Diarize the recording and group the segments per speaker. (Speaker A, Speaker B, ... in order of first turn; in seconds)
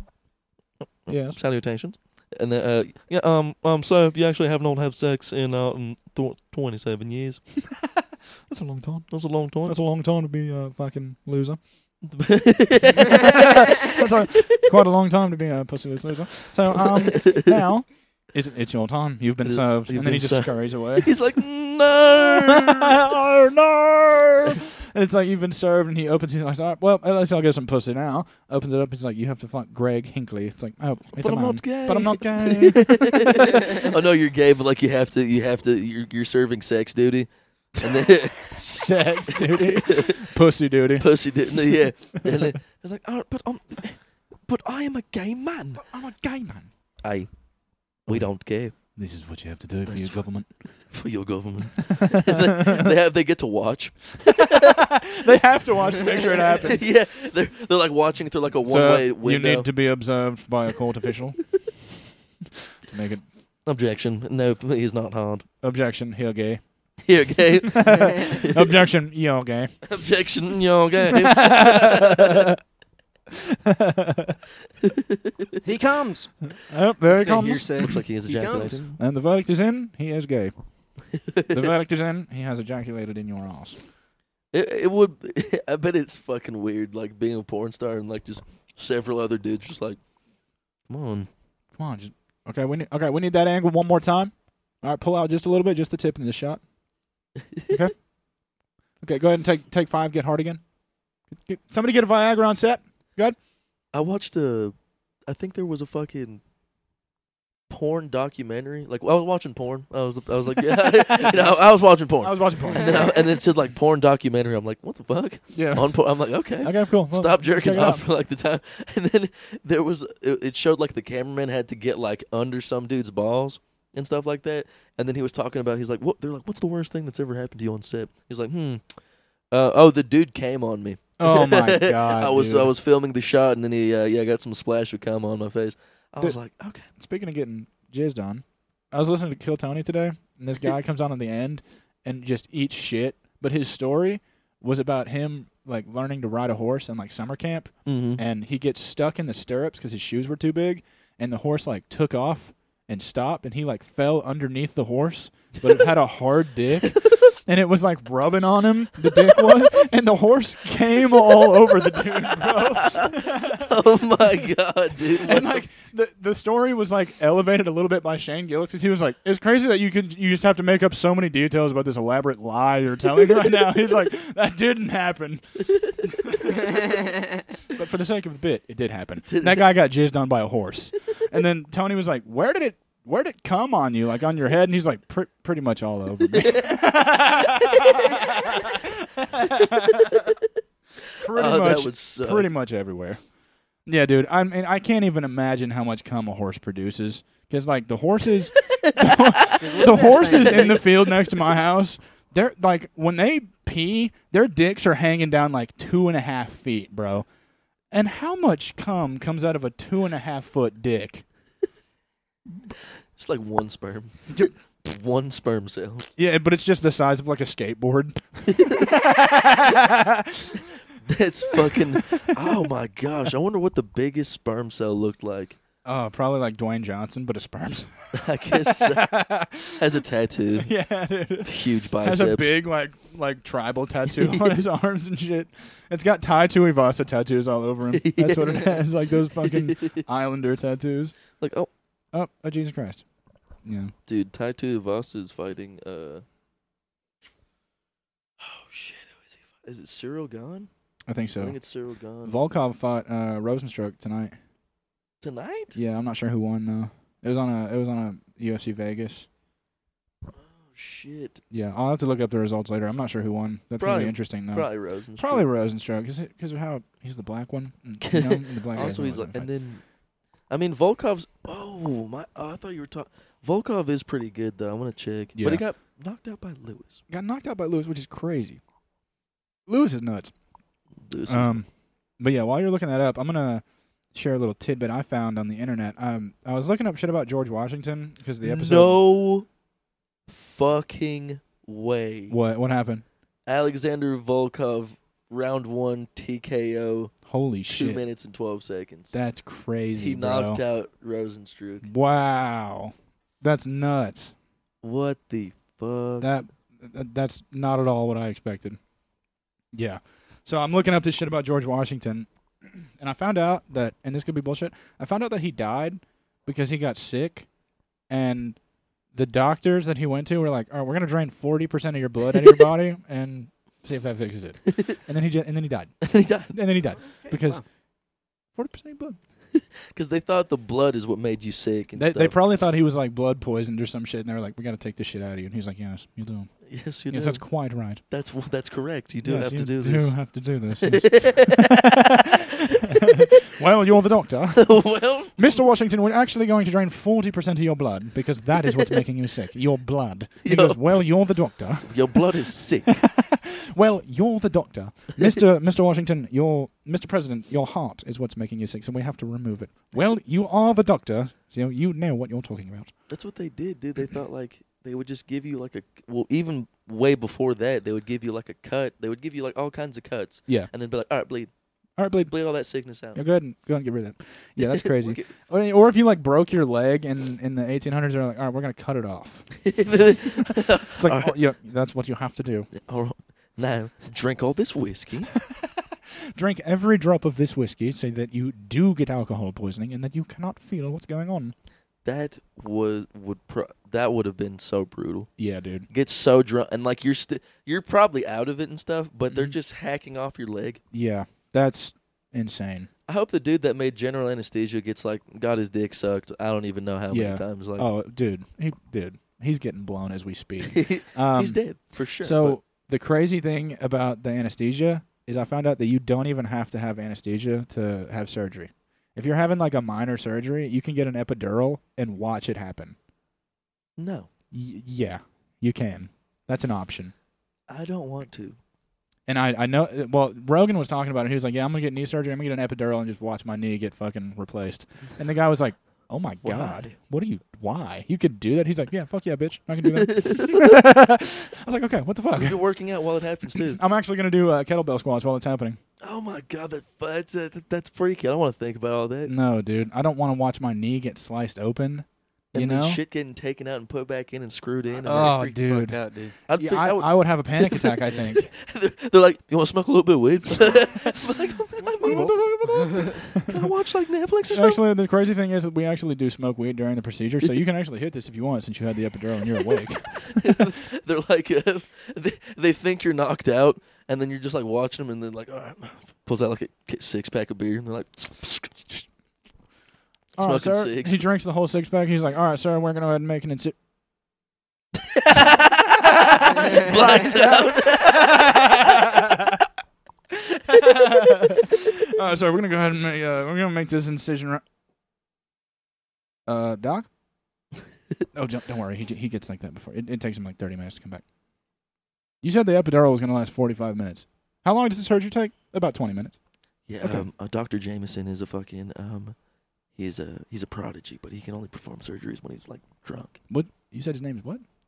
Speaker A: 1.1-7.4, 9.1-9.8, 12.0-13.7, 16.7-17.6, 19.4-23.0, 31.2-38.8, 39.3-40.2, 41.0-45.8, 47.0-47.3, 48.0-48.7, 49.9-50.2, 50.9-54.8, 56.5-59.7, 63.6-65.5, 67.0-68.8, 69.8-72.5, 74.8-75.6, 77.8-79.0, 81.2-81.6, 84.5-90.0, 90.9-91.3, 103.9-104.8, 105.3-106.4, 107.7-129.0, 129.5-136.9, 147.9-148.2, 162.5-165.6, 179.3-179.6, 186.4-186.8, 188.0-188.3, 189.5-190.4, 191.2-192.5, 198.6-200.7, 213.2-216.1, 218.5-218.9, 221.1-225.6, 228.1-229.1, 229.8-230.7, 231.4-232.6, 234.2-234.6, 237.9-240.1, 241.4-241.7, 244.1-246.2, 248.4-250.7, 251.4-252.4, 255.2-255.8, 260.4-261.4, 263.8-265.5, 268.0-269.8, 270.5-277.0, 281.1-281.6, 288.4-289.5, 290.3-292.4, 293.5-297.1, 297.7-299.1, 300.0-301.9, 304.8-306.3, 324.7-325.0, 326.0-326.6, 329.5-332.4, 336.7-337.4, 338.1-340.1, 340.8-343.3, 344.5-345.5, 350.4-351.0, 351.9-352.9, 363.1-371.5, 372.3-373.2, 374.6-375.3, 379.6-381.4, 382.7-385.3, 392.1-395.3, 395.9-400.8, 403.1-407.9, 410.6-412.6, 424.0-424.3, 427.7-428.6, 436.4-437.0, 439.9-440.8, 442.3-443.8, 446.0-449.3, 452.5-455.4, 456.5-464.8, 470.2-479.1, 480.4-481.2, 485.0-489.1, 506.9-509.4, 509.9-513.4
Speaker B: 1.1-1.4, 7.7-11.6, 13.0-21.2, 22.1-33.9, 37.9-42.5, 45.8-46.7, 49.0-50.5, 51.9-52.9, 54.3-56.9, 58.6-61.5, 62.9-63.2, 65.6-66.6, 67.7-69.8, 71.1-72.6, 73.3-74.4, 76.6-77.9, 79.0-80.5, 81.5-83.8, 91.8-96.6, 97.7-98.0, 99.0-100.6, 101.3-103.4, 110.8-111.4, 112.2-113.2, 115.5-116.0, 116.6-118.0, 131.2-132.7, 136.9-164.5, 165.2-177.1, 177.7-190.4, 191.2-193.2, 193.9-207.3, 207.9-211.2, 216.2-220.7, 221.5-222.3, 225.8-229.8, 230.6-241.2, 242.1-243.0, 243.7-243.9, 251.1-251.6, 252.2-254.4, 255.7-259.3, 261.5-269.5, 275.4-275.6, 277.1-278.6, 279.7-280.3, 281.3-281.7, 282.2-289.0, 292.3-293.0, 297.3-298.0, 299.1-300.6, 301.8-304.3, 306.2-308.8, 309.7-317.5, 318.1-318.6, 319.1-327.6, 328.6-329.2, 331.9-336.5, 337.1-338.0, 339.2-344.8, 345.4-352.2, 352.9-362.9, 372.0-372.3, 373.1-382.7, 385.4-391.5, 395.4-395.9, 399.3-399.6, 400.9-402.9, 407.1-411.6, 412.2-423.0, 424.5-427.1, 429.3-442.6, 443.5-445.8, 449.3-453.0, 455.0-456.0, 456.6-458.5, 462.0-463.7, 464.5-470.7, 480.4-483.8, 485.4-489.6, 490.3-494.6, 496.5-497.1, 498.3-501.2, 502.4-506.4, 507.0-507.3, 513.5-514.6
Speaker C: 75.6-78.8, 112.7-113.2, 199.5-200.9, 327.0-327.6, 454.9-456.4, 462.1-463.1